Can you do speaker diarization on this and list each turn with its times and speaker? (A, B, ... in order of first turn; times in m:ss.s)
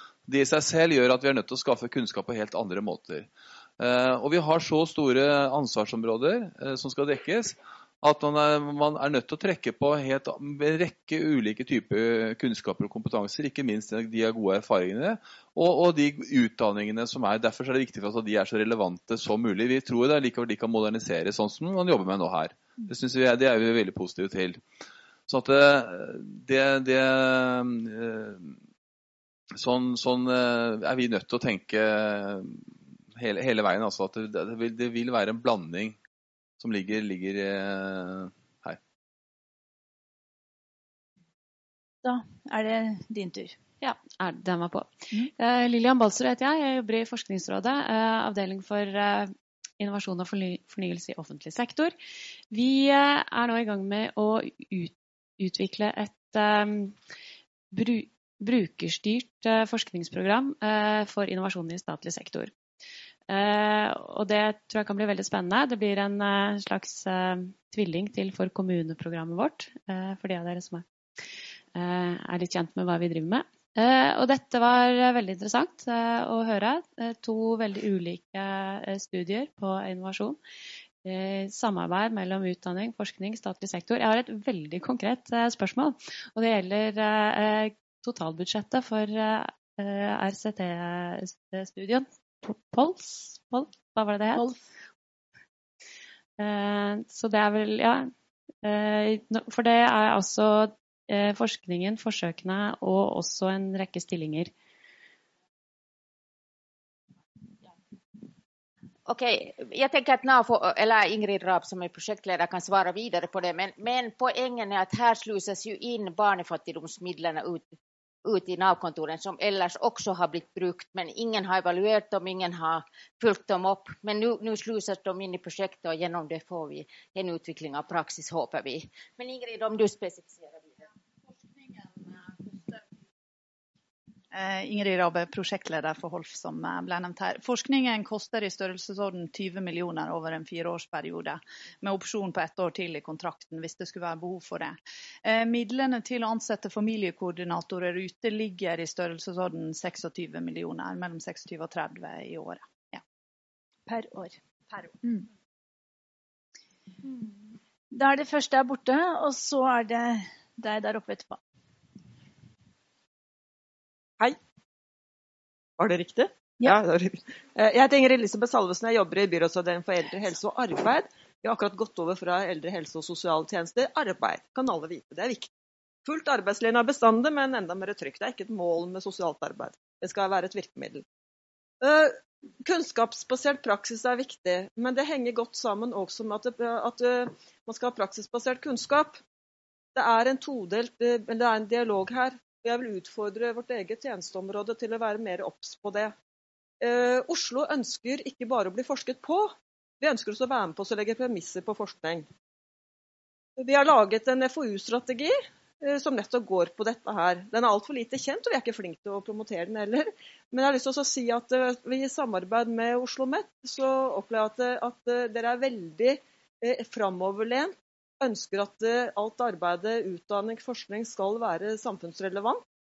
0:00.3-0:24.6 A
0:25.3-0:28.6 A
0:29.6-0:32.6 A
0:33.1-0:36.0 A
0:36.6-0:38.8 A
0:42.0-0:43.5 B
0:43.8-0:51.9 C
0:52.5-0:57.0 C
0:57.7-1:02.5 C
1:03.3-1:10.8 C
1:11.7-1:20.4 C
1:21.0-1:34.4 C
1:34.3-1:34.6 B
1:36.4-1:38.1 C
1:38.6-1:44.5 C
1:49.1-2:10.8 D
2:14.3-2:32.7 E
2:33.9-2:34.4 B
2:35.0-2:35.2 B
2:37.9-2:41.4 B
2:45.8-2:55.5 F
2:56.0-3:01.0 F
3:01.8-3:09.2 F
3:09.9-3:16.1 F
3:16.8-3:22.3 F
3:23.6-3:42.6 F